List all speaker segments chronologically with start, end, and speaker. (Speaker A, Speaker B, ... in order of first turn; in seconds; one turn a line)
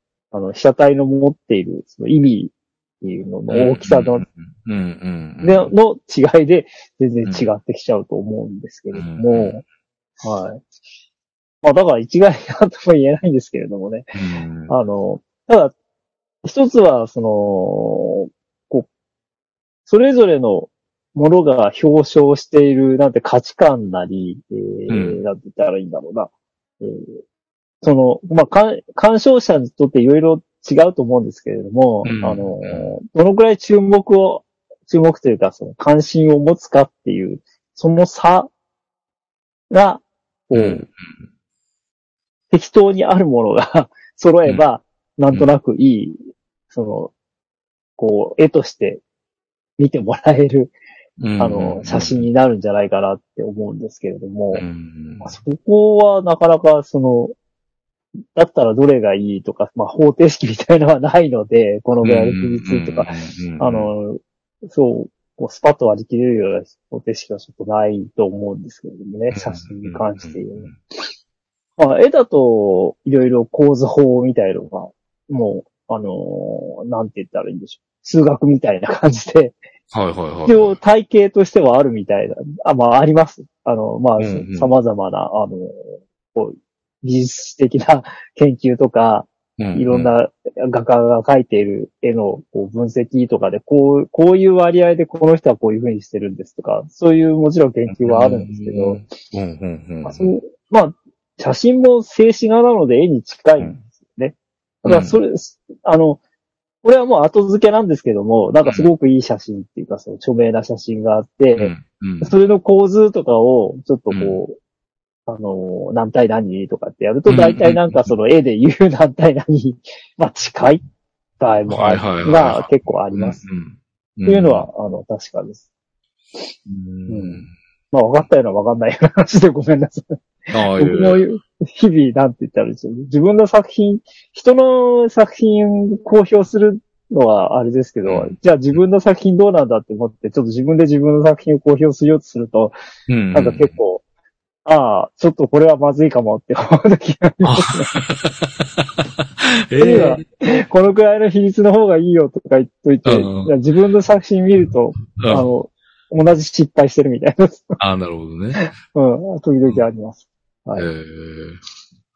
Speaker A: 0.3-4.2
Speaker B: 3.5-5.7
Speaker A: 5.4-9.6
Speaker B: 8.9-9.6
Speaker A: 10.2-10.6
Speaker A: 11.6-14.2
Speaker B: 14.1-14.7
Speaker A: 14.7-15.7
Speaker A: 16.4-18.9
Speaker A: 19.9-27.2
Speaker B: 24.9-25.2
Speaker A: 27.8-38.5
Speaker B: 32.0-32.9
Speaker A: 39.7-40.9
Speaker B: 40.5-41.2
Speaker A: 42.5-46.2
Speaker A: 46.7-47.1
Speaker A: 48.0-49.0
Speaker A: 49.8-50.7
Speaker B: 51.2-52.3
Speaker A: 51.4-54.6
Speaker B: 54.5-55.4
Speaker A: 55.2-57.4
Speaker A: 58.3-70.7
Speaker B: 62.0-63.9
Speaker B: 69.3-70.7
Speaker A: 71.8-79.6
Speaker B: 79.9-80.8
Speaker A: 80.5-99.0
Speaker B: 84.2-84.7
Speaker B: 89.6-90.1
Speaker B: 97.9-100.4
Speaker A: 100.0-106.2
Speaker B: 104.8-105.2
Speaker A: 106.8-114.6
Speaker B: 108.7-108.9
Speaker B: 111.6-112.3
Speaker B: 114.1-114.4
Speaker A: 115.3-120.8
Speaker B: 117.3-118.1
Speaker A: 121.4-123.5
Speaker B: 121.7-124.7
Speaker A: 124.3-125.7
Speaker B: 126.7-127.5
Speaker A: 127.1-142.8
Speaker B: 130.5-131.2
Speaker B: 138.1-138.8
Speaker B: 143.1-143.8
Speaker A: 143.3-144.0
Speaker A: 144.7-148.0
Speaker B: 147.4-150.2
Speaker A: 149.8-157.8
Speaker B: 153.1-153.5
Speaker B: 155.2-155.5
Speaker B: 157.8-158.7
Speaker A: 158.6-160.9
Speaker B: 160.8-161.6